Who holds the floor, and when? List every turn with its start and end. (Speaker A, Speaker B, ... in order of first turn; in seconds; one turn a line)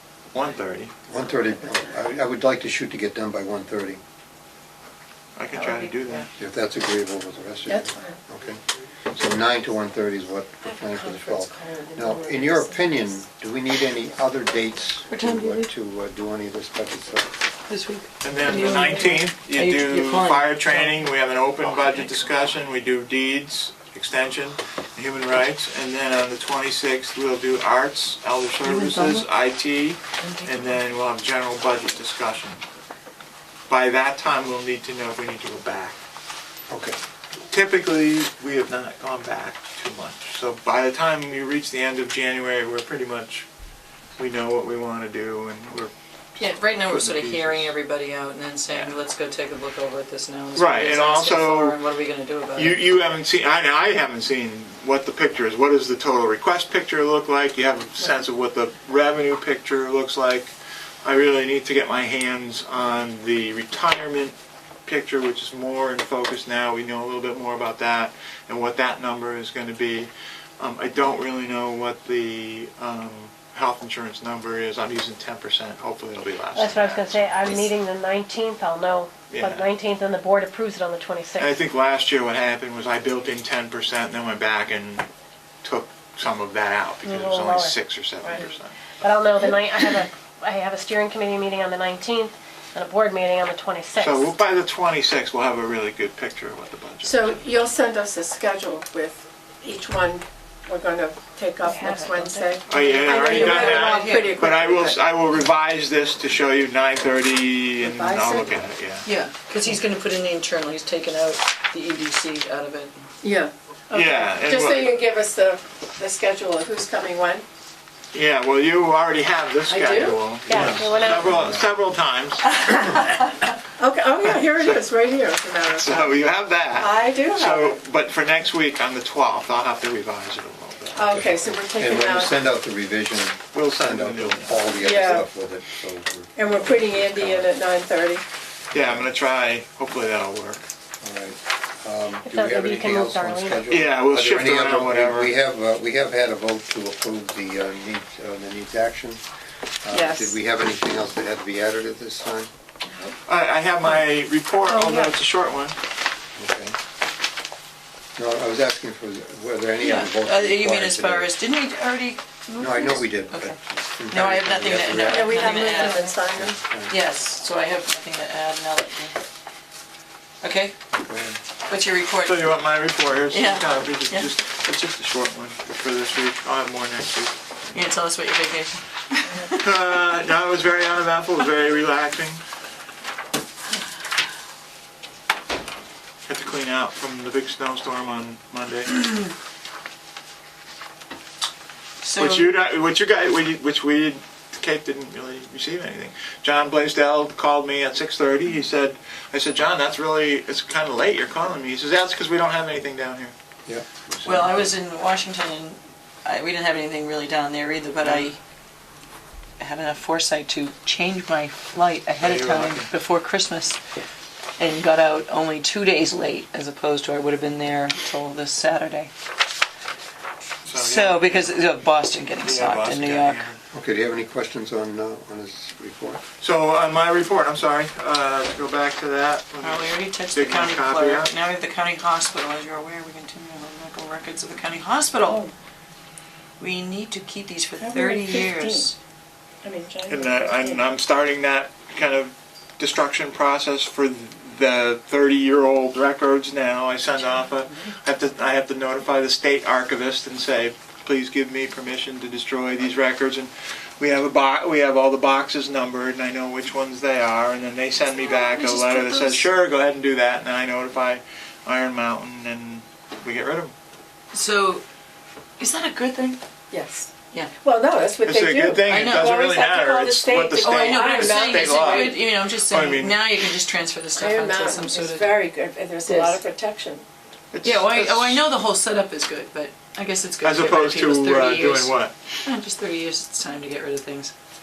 Speaker A: 0.3-0.9
Speaker B: 1.1-4.0
Speaker A: 5.4-6.3
Speaker C: 5.6-6.2
Speaker B: 6.4-17.4
Speaker C: 7.7-8.2
Speaker C: 10.7-13.2
Speaker D: 15.1-15.7
Speaker D: 17.7-21.0
Speaker A: 18.2-32.6
Speaker D: 28.6-29.3
Speaker D: 30.2-30.7
Speaker A: 33.7-36.0
Speaker B: 36.7-37.0
Speaker A: 37.5-43.5
Speaker A: 44.2-46.5
Speaker D: 46.4-52.8
Speaker B: 47.0-47.7
Speaker A: 50.6-51.8
Speaker A: 52.5-64.3
Speaker A: 64.9-77.7
Speaker E: 76.5-81.6
Speaker A: 79.3-79.7
Speaker A: 81.4-85.1
Speaker A: 85.6-88.8
Speaker E: 87.0-94.3
Speaker A: 94.0-97.4
Speaker C: 97.0-105.0
Speaker E: 101.6-103.5
Speaker A: 102.7-109.1
Speaker D: 103.1-104.5
Speaker C: 107.8-108.5
Speaker D: 109.0-113.0
Speaker C: 113.2-117.5
Speaker A: 113.9-115.0
Speaker A: 118.1-123.0
Speaker C: 119.7-120.3
Speaker E: 120.5-121.3
Speaker B: 120.5-121.7
Speaker C: 123.8-126.2
Speaker A: 124.2-124.8
Speaker A: 125.6-131.3
Speaker C: 126.7-127.8
Speaker C: 130.9-132.4
Speaker B: 131.1-137.5
Speaker A: 133.5-134.7
Speaker C: 134.8-135.3
Speaker C: 136.4-138.2
Speaker B: 138.7-139.1
Speaker A: 138.7-140.6
Speaker B: 141.0-149.2
Speaker E: 142.2-143.7
Speaker A: 143.7-145.3
Speaker B: 149.8-152.5
Speaker C: 149.9-150.3
Speaker C: 152.8-153.1
Speaker A: 153.3-155.8
Speaker C: 154.7-155.1
Speaker B: 156.4-156.8
Speaker B: 158.2-161.3
Speaker D: 159.8-166.2
Speaker B: 162.6-167.0
Speaker C: 165.0-166.6
Speaker D: 166.9-169.2
Speaker D: 170.4-170.8
Speaker B: 171.0-171.4
Speaker D: 171.7-172.6
Speaker A: 172.2-177.3
Speaker D: 173.3-174.3
Speaker D: 177.7-179.9
Speaker A: 179.5-182.4
Speaker A: 186.3-188.9
Speaker D: 192.0-192.5
Speaker A: 192.2-203.3
Speaker B: 203.7-204.7
Speaker A: 204.2-204.6
Speaker D: 204.2-208.4
Speaker A: 208.0-208.3
Speaker D: 209.6-213.8
Speaker A: 212.2-212.9
Speaker D: 214.6-219.1
Speaker A: 220.7-221.5
Speaker D: 220.7-223.5
Speaker A: 222.4-223.6
Speaker B: 223.7-226.2
Speaker A: 226.4-231.3
Speaker D: 229.6-235.4
Speaker C: 235.3-235.5
Speaker D: 236.6-238.9
Speaker C: 237.8-238.9
Speaker C: 239.6-240.8
Speaker A: 240.1-263.7
Speaker D: 258.0-259.4
Speaker D: 264.3-264.8
Speaker D: 265.6-266.4
Speaker C: 266.7-272.2
Speaker A: 268.2-273.3
Speaker D: 268.9-269.4
Speaker D: 270.6-275.4
Speaker C: 274.1-277.1
Speaker D: 276.1-276.4
Speaker A: 277.5-278.4
Speaker D: 277.6-284.3
Speaker A: 280.4-282.1